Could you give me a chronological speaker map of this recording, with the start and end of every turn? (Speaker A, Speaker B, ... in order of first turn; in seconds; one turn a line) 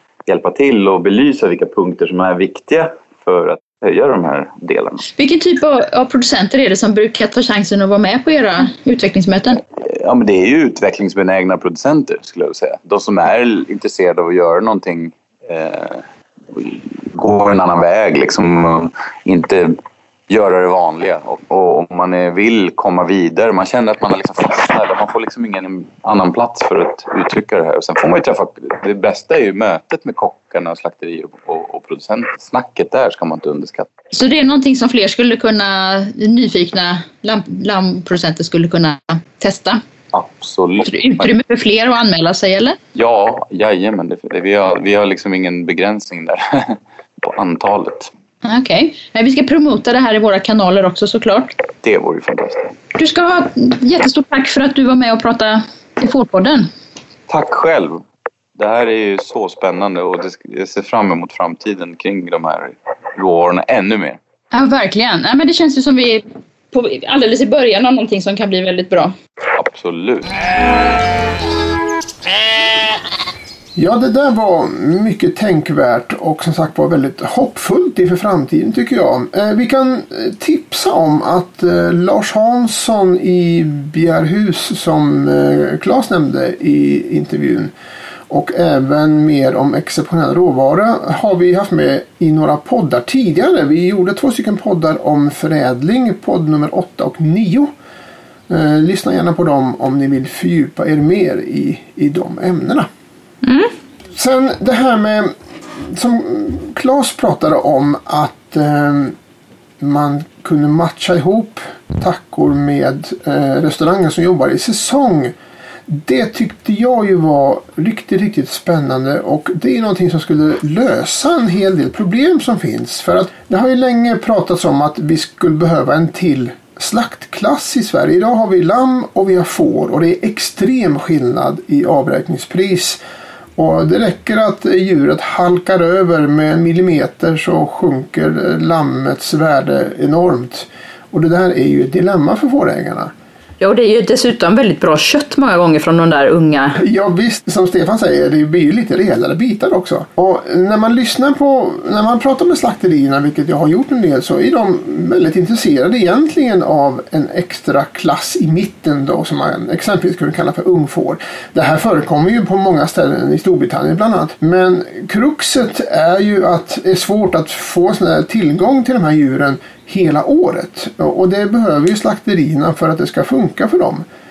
Speaker A: 0.2-5.1
Speaker B: 5.1-9.6
Speaker A: 9.8-19.7
Speaker A: 20.3-33.9
Speaker B: 34.1-39.8
Speaker A: 40.1-41.3
Speaker B: 40.8-42.8
Speaker A: 42.9-48.1
Speaker B: 48.4-51.5
Speaker A: 51.8-52.7
Speaker B: 52.9-56.7
Speaker A: 57.3-58.0
Speaker A: 58.5-64.2
Speaker B: 64.5-69.1
Speaker A: 69.5-70.3
Speaker C: 73.7-87.7
Speaker C: 88.3-97.7
Speaker C: 98.5-102.9
Speaker B: 103.4-103.7
Speaker C: 104.1-105.3
Speaker C: 105.9-109.1
Speaker C: 109.8-115.3
Speaker C: 115.9-133.0
Speaker C: 133.6-143.1
Speaker B: 143.6-146.8
Speaker C: 146.8-174.0